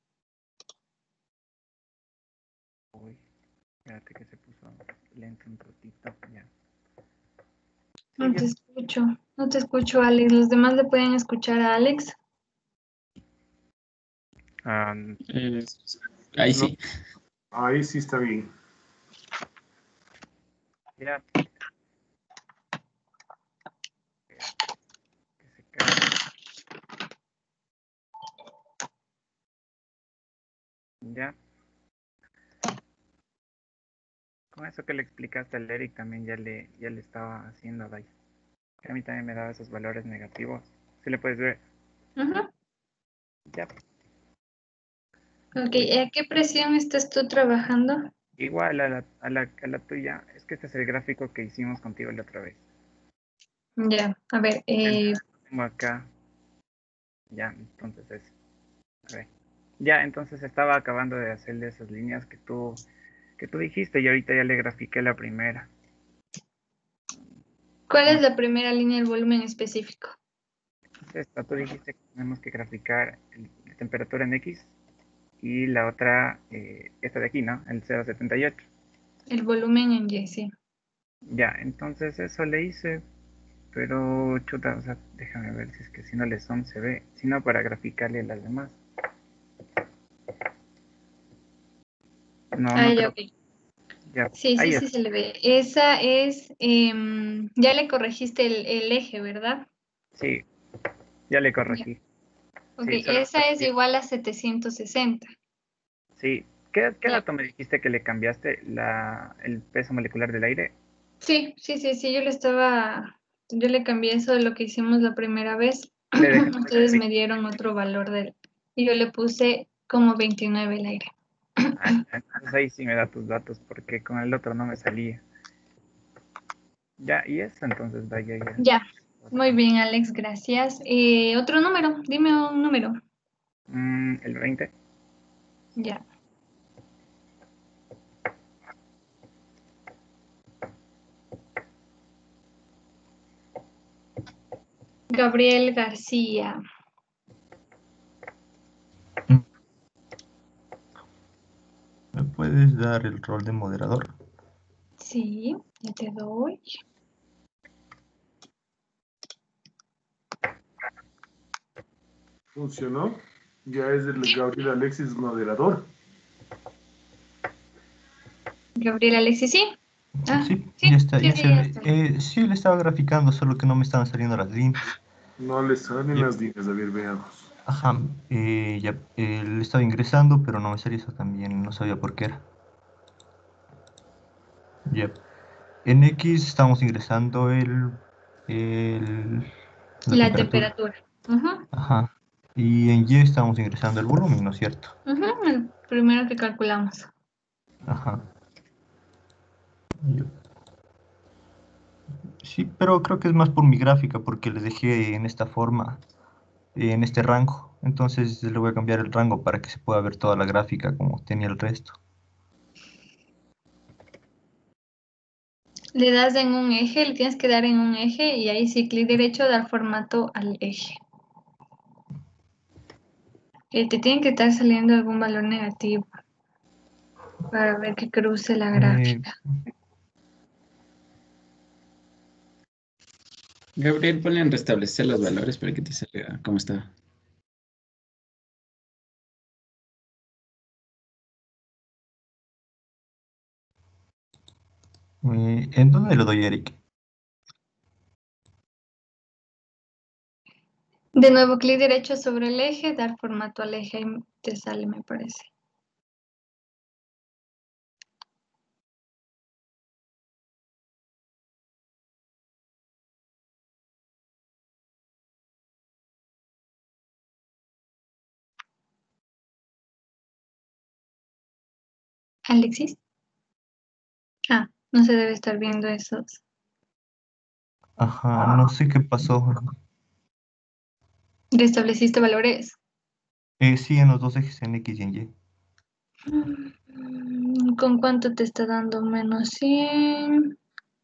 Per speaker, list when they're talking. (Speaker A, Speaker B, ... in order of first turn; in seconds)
Speaker A: 2.9-3.2, 3.9-6.5, 8.2-8.4, 14.6-15.2, 25.4-26.1, 31.0-31.3, 34.5-38.1, 38.8-41.6, 48.4-52.6, 54.9-56.1, 57.3-58.3, 59.8-62.8, 63.4-65.7, 71.1-74.7, 75.4-78.6, 81.3-83.0, 83.7-88.8, 92.5-93.2, 94.1-94.8, 100.2-100.4, 101.3-102.0, 102.8-103.7, 106.2-110.7, 116.2-117.0, 121.8-125.2, 127.0-128.6, 129.2-129.6, 133.7-134.7
Speaker B: 8.2-12.1, 42.2-42.5, 45.5-48.1, 53.8-55.2, 67.9-70.1, 79.3-80.5, 92.7-93.3, 94.3-99.7, 102.8-105.3, 111.2-121.1, 128.6-133.0, 135.8-136.0, 145.1-146.6, 155.0-156.8, 168.8-169.7, 170.3-171.9, 190.1-191.7, 195.1-197.1, 215.9-221.0, 223.7-226.1, 227.5-229.3, 251.2-255.5, 272.5-273.0, 274.5-276.4, 281.5-282.8, 286.3-290.5
Speaker C: 15.3-16.8, 233.8-236.9
Speaker D: 17.5-18.5, 162.5-165.9, 175.4-177.5
Speaker E: 152.1-154.1, 170.3-174.9, 177.6-182.4, 184.9-185.2, 185.8-189.5, 190.1-190.7, 191.7-194.9, 197.9-198.2, 200.0-200.3, 202.4-206.0, 206.7-212.0, 228.7-229.3, 245.2-246.8, 278.0-279.7, 283.6-285.3